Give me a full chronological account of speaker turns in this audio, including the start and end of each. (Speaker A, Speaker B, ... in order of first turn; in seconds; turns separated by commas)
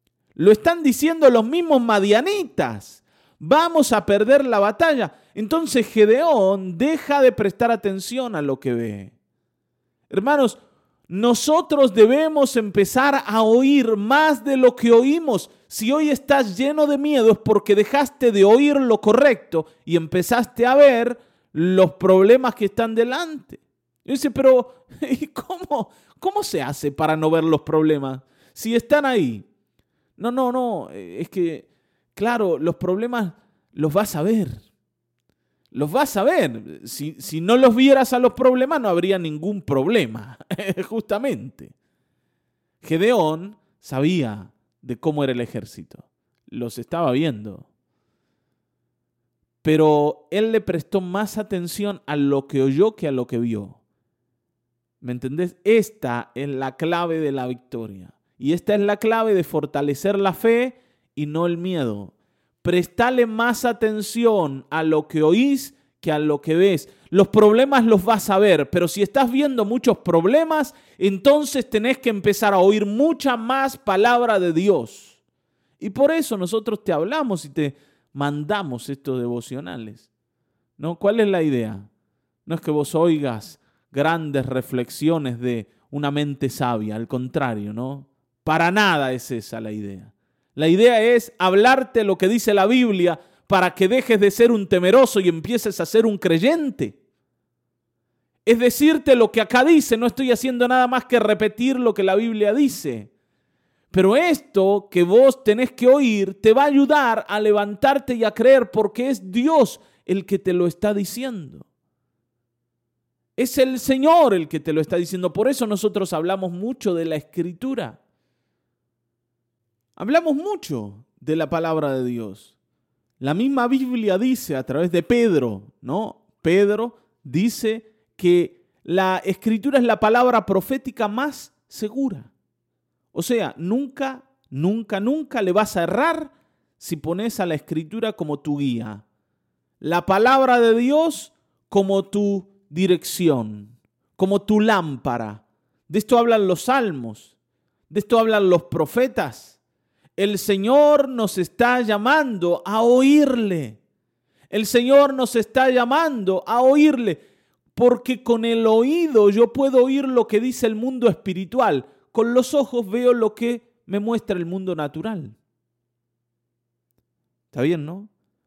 Speaker A: 0.3-9.1, Speaker A: 10.1-29.4, Speaker A: 30.2-34.6, Speaker A: 35.7-41.7, Speaker A: 42.8-47.7, Speaker A: 49.6-53.8, Speaker A: 55.0-75.2, Speaker A: 75.8-80.1, Speaker A: 80.8-81.9, Speaker A: 82.5-97.0, Speaker A: 98.5-103.1, Speaker A: 103.9-111.7, Speaker A: 113.4-118.0, Speaker A: 120.0-122.5, Speaker A: 123.2-132.3, Speaker A: 133.1-139.0, Speaker A: 139.8-147.3, Speaker A: 147.9-149.6, Speaker A: 150.2-153.8, Speaker A: 154.5-157.2, Speaker A: 157.7-165.4, Speaker A: 167.5-168.1